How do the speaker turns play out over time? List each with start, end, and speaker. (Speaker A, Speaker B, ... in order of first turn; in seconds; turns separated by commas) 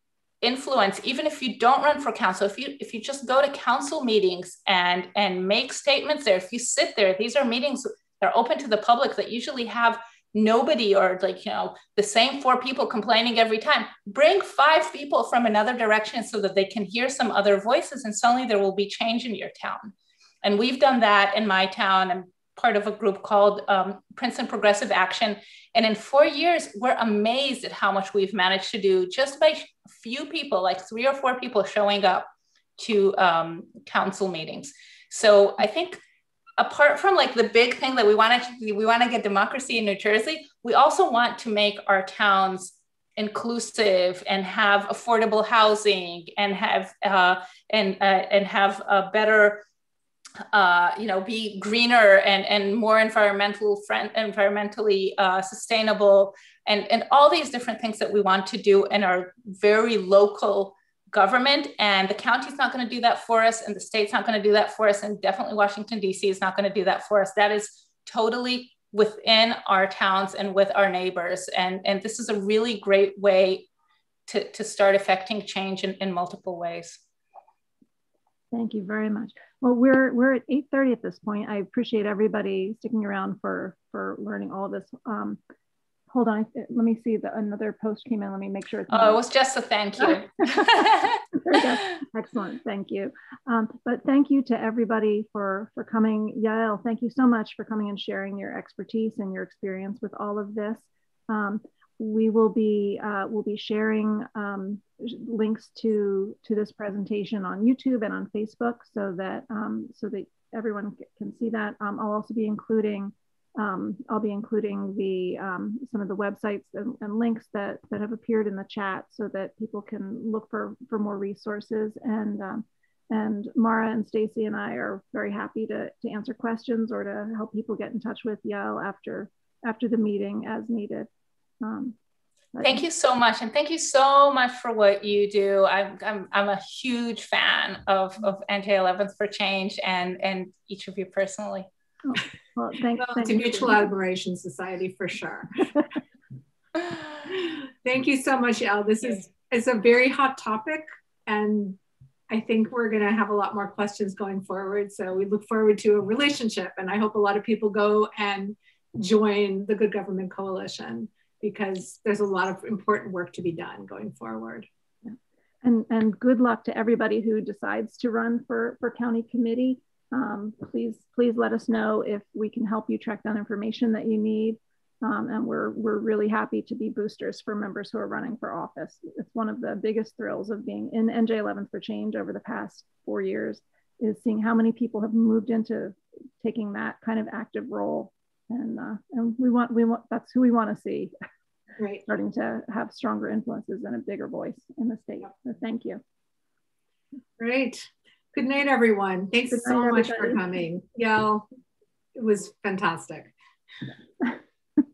Speaker A: 0.4-36.0, Speaker A: 36.6-49.6, Speaker A: 50.5-73.7, Speaker A: 74.3-77.0, Speaker B: 78.5-85.4, Speaker B: 86.1-89.2, Speaker A: 88.9-91.6, Speaker B: 90.0-131.1, Speaker B: 131.6-131.9, Speaker B: 132.5-132.8, Speaker A: 132.6-141.7, Speaker B: 142.0-143.8, Speaker C: 143.0-145.6, Speaker C: 147.3-151.8, Speaker C: 152.3-164.7, Speaker B: 165.0-191.1, Speaker C: 191.8-192.0, Speaker B: 192.1-196.0, Speaker C: 197.4-201.4, Speaker B: 199.5-200.4, Speaker C: 202.2-203.3